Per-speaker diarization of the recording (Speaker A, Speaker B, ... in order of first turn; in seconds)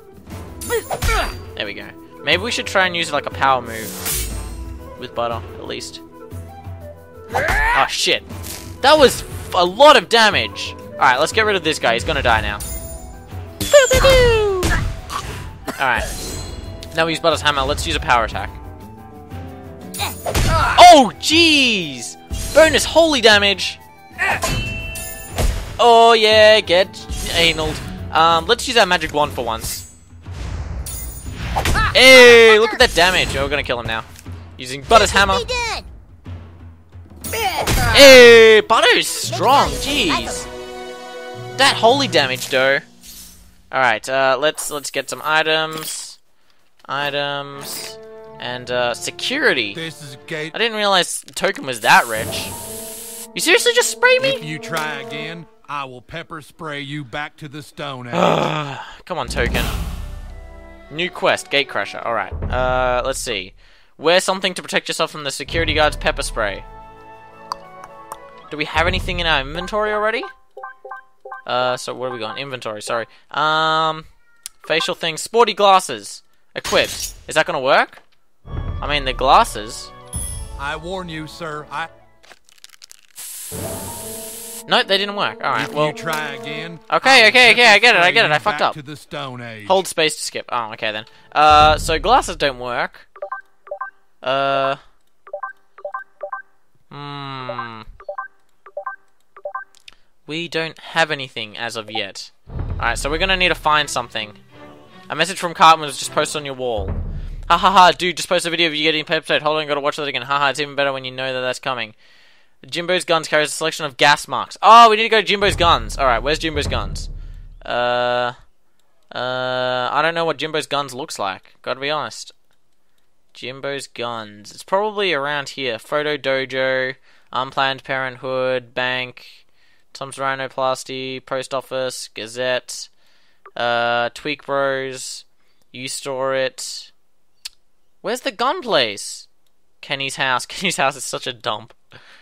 Speaker A: 1.5-3.9, 5.0-6.0, 7.6-8.2, 8.8-12.6, 13.7-14.8, 15.7-16.1, 16.9-18.6, 20.6-23.8, 25.8-29.8, 31.9-35.5, 37.9-40.5, 41.6-42.9, 43.7-46.2, 46.9-49.8, 50.5-52.5, 53.3-54.4, 58.1-59.7, 60.9-66.7, 68.5-70.3, 71.5-74.1, 74.6-78.0, 78.8-79.9, 84.7-86.0, 86.9-88.8, 89.7-93.1, 94.2-94.8, 96.9-97.8, 100.3-104.4, 105.1-106.9, 107.5-111.9, 112.6-117.1, 117.6-118.3, 119.1-122.3, 123.3-129.4, 129.9-132.9, 133.6-136.9, 138.0-139.3, 139.8-141.8
Speaker B: 31.7-32.8, 34.9-35.9, 37.3-38.1, 39.3-40.5
Speaker C: 49.7-50.6, 54.2-58.4, 80.6-81.9, 85.5-89.8